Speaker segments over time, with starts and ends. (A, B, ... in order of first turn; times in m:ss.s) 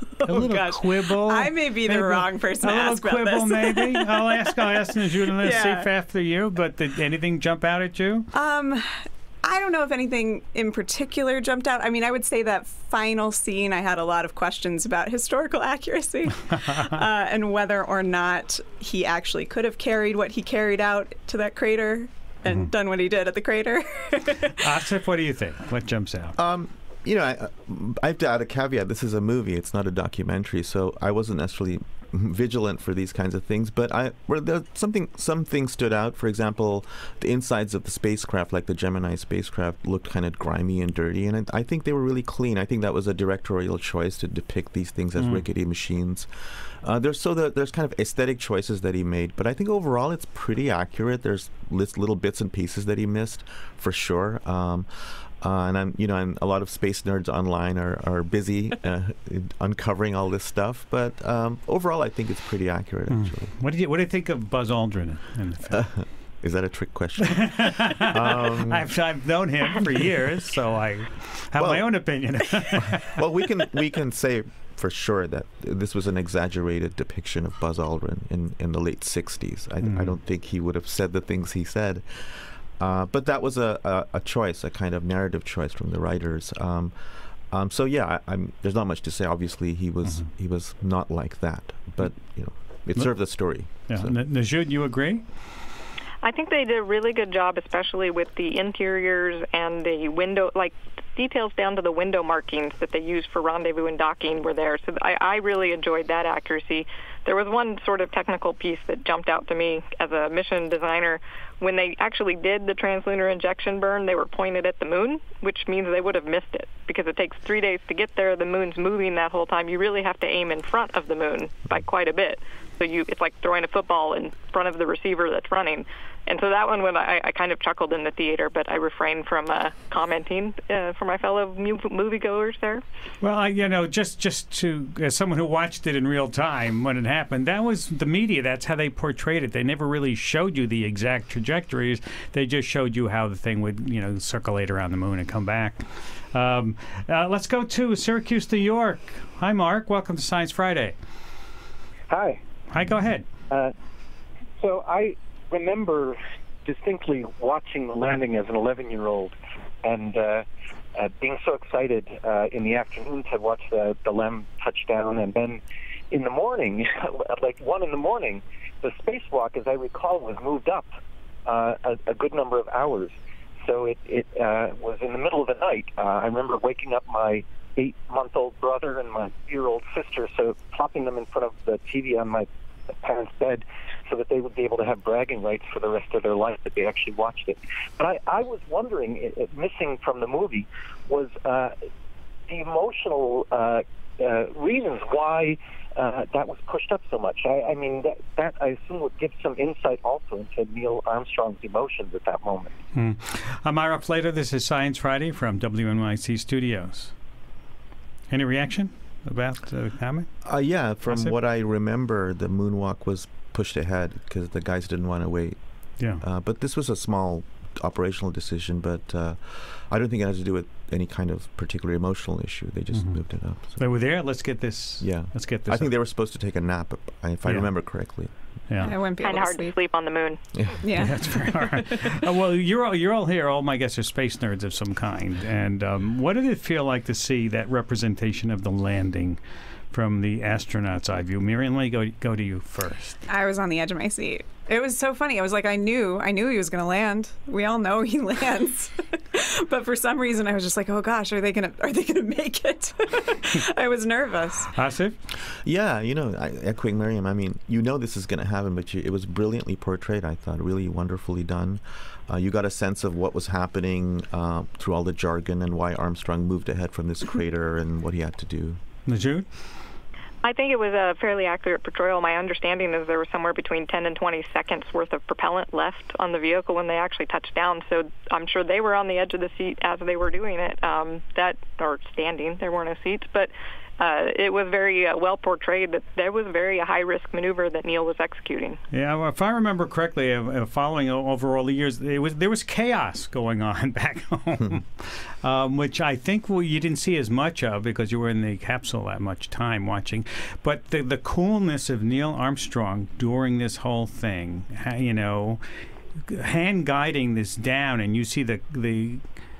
0:00.2-0:05.9 A
0:00.2-0:08.3 B
0:08.3-0:24.6 A
0:24.6-0:26.4 B
0:26.4-1:03.5 C
0:45.2-0:45.4 B
1:03.1-1:05.8 B
1:05.7-1:08.9 C
1:07.4-1:13.2 B
1:11.6-1:34.1 C
1:19.8-1:20.1 B
1:33.0-1:35.2 B
1:36.2-2:12.8 D
2:13.2-2:31.0 B
2:32.1-2:32.4 E
2:32.7-2:33.3 B
2:34.6-2:50.9 E
2:51.5-3:02.5 E
3:03.0-3:11.8 E
3:12.5-3:22.7 E
3:23.0-3:27.1 B
3:28.3-3:30.3 B
3:30.4-3:44.1 C
3:31.1-3:31.3 B
3:36.0-3:36.2 B
3:42.9-3:45.9 B
3:45.0-3:48.3 C
3:47.4-3:47.7 B
3:48.7-3:49.0 B
3:48.8-3:49.8 A
3:49.2-3:50.4 D
3:50.6-3:50.8 C
3:50.8-3:52.1 A
3:51.0-3:59.4 B
3:59.9-4:03.2 B
4:03.3-4:14.7 A
4:14.7-4:15.2 B
4:15.6-4:28.8 C
4:29.1-4:29.5 B
4:30.4-4:48.8 D
4:48.9-5:05.6 B
5:06.3-5:09.2 B